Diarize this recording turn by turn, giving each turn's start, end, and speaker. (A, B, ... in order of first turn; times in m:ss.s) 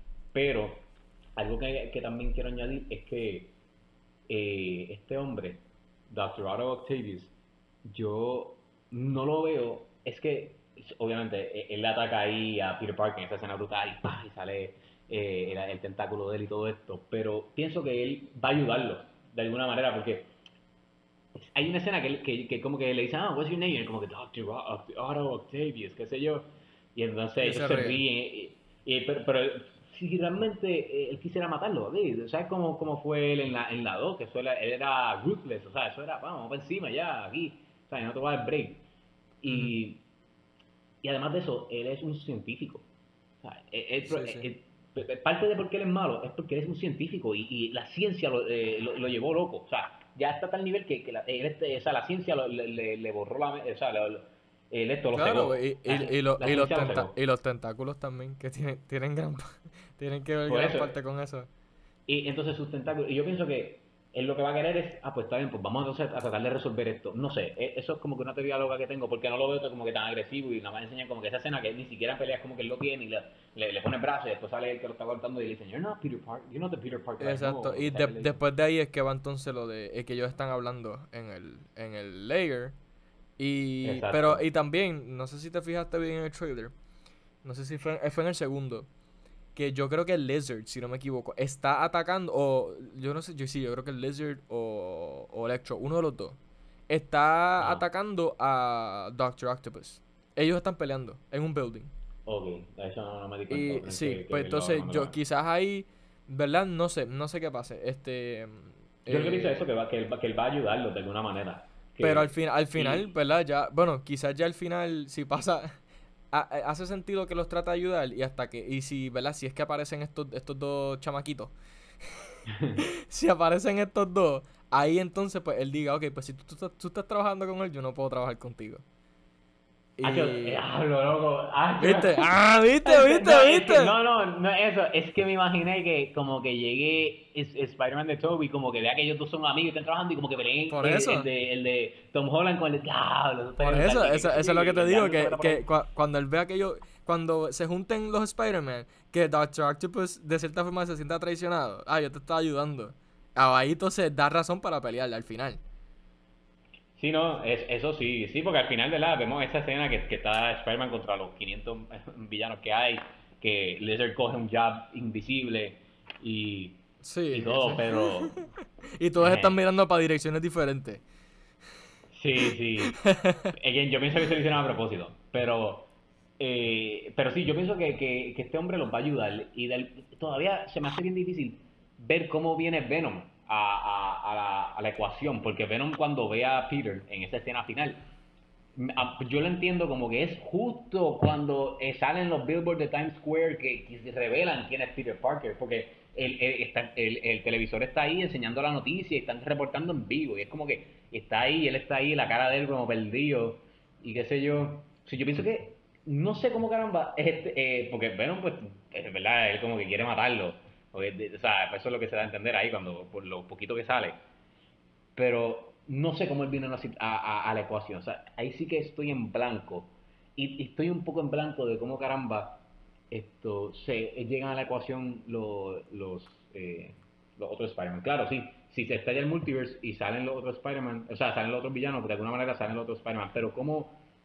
0:00.3-0:03.5 A
0:04.3-0:07.3 A
0:07.8-0:20.3 A
0:21.4-0:38.8 A
0:27.4-0:28.0 B
0:39.4-0:40.0 A
0:39.5-0:39.8 B
0:41.0-0:42.8 A
0:43.4-0:57.1 A
0:44.0-0:44.5 B
0:55.1-1:01.5 B
1:00.5-1:00.9 A
1:02.1-1:18.4 A
1:17.2-1:22.7 B
1:23.4-1:26.7 B
1:23.8-1:24.4 A
1:27.4-1:28.9 B
1:29.5-1:36.4 B
1:36.9-1:41.9 B
1:37.6-1:37.8 A
1:42.2-1:45.2 A
1:43.5-1:49.6 B
1:49.1-1:53.1 A
1:52.0-1:55.8 B
1:56.3-2:01.5 B
2:02.0-2:08.8 B
2:02.5-2:02.8 A
2:10.0-2:10.6 B
2:10.0-2:12.3 A
2:11.8-2:14.0 B
2:12.8-2:25.6 A
2:20.7-2:21.3 B
2:23.6-2:35.6 B
2:37.0-2:48.4 A
2:47.0-2:51.0 B
2:49.2-2:49.6 A
2:52.1-2:53.0 A
2:52.5-2:53.5 B
2:53.5-3:08.0 A
3:08.8-3:34.2 A
3:35.2-3:54.0 A